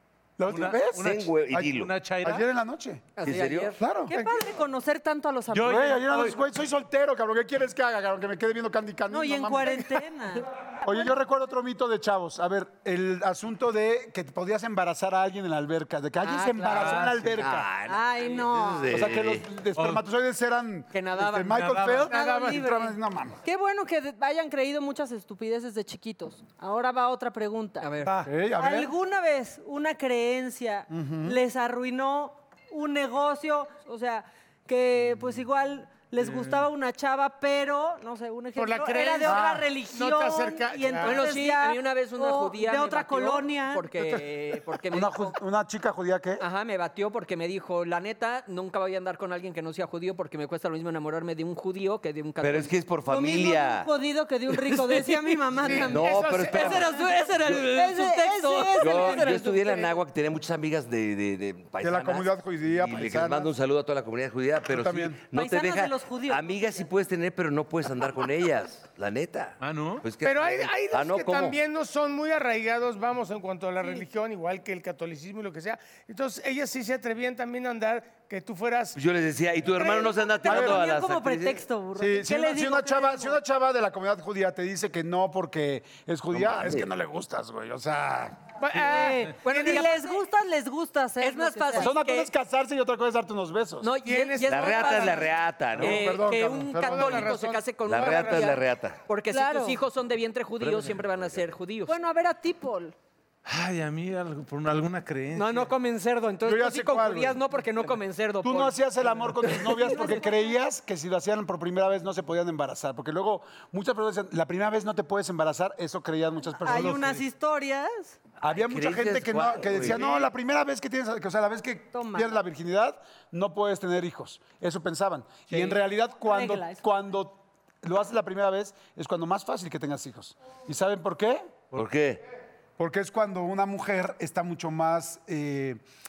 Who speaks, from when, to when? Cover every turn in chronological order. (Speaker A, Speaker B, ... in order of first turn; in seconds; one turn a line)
Speaker A: 0.4-1.7
Speaker B: 0.5-2.5
Speaker C: 1.0-1.9
Speaker A: 2.2-3.1
Speaker D: 3.2-3.8
Speaker C: 3.2-3.8
Speaker A: 3.8-4.1
Speaker E: 4.1-6.0
Speaker B: 5.5-6.4
Speaker A: 5.7-10.0
Speaker E: 9.1-11.1
Speaker A: 10.8-17.7
Speaker D: 16.2-17.1
Speaker B: 16.7-17.3
Speaker C: 17.3-19.5
Speaker E: 17.9-18.9
Speaker A: 18.9-23.4
Speaker B: 19.8-20.0
Speaker D: 20.9-22.4
Speaker B: 21.5-22.6
Speaker E: 22.1-27.9
Speaker D: 27.8-28.2
Speaker A: 28.2-28.9
Speaker E: 28.6-43.9
Speaker A: 30.9-31.4
Speaker F: 38.5-41.3
Speaker A: 39.3-39.7
Speaker D: 41.0-45.4
Speaker A: 44.9-46.4
Speaker D: 46.4-52.7
Speaker C: 52.4-53.9
Speaker E: 53.1-59.9
Speaker D: 54.7-59.8
Speaker F: 55.6-57.0
Speaker C: 55.9-57.7
Speaker C: 58.8-71.6
Speaker A: 61.8-63.5
Speaker A: 64.7-65.2
Speaker E: 65.3-66.8
Speaker B: 69.6-70.0
Speaker F: 70.2-79.0
Speaker C: 79.0-81.6
Speaker E: 79.8-83.4
Speaker A: 80.5-80.8
Speaker A: 82.0-88.4
Speaker C: 86.3-86.9
Speaker F: 88.6-89.8
Speaker E: 88.7-91.9
Speaker D: 89.4-90.2
Speaker D: 91.2-92.3
Speaker A: 91.8-93.9
Speaker D: 93.8-95.2
Speaker F: 94.0-95.3
Speaker C: 94.5-96.0
Speaker D: 95.8-102.0
Speaker A: 95.8-97.5
Speaker F: 96.8-98.5
Speaker C: 97.8-99.0
Speaker E: 99.3-99.8
Speaker C: 100.6-101.4
Speaker E: 101.9-103.0
Speaker B: 103.5-105.7
Speaker D: 105.3-108.8
Speaker A: 106.4-107.4
Speaker A: 108.4-117.2
Speaker E: 109.8-110.5
Speaker E: 116.6-118.2
Speaker A: 118.4-131.6
Speaker C: 118.5-120.0
Speaker E: 121.9-122.4
Speaker E: 126.2-126.8
Speaker C: 131.7-132.2
Speaker A: 132.8-135.8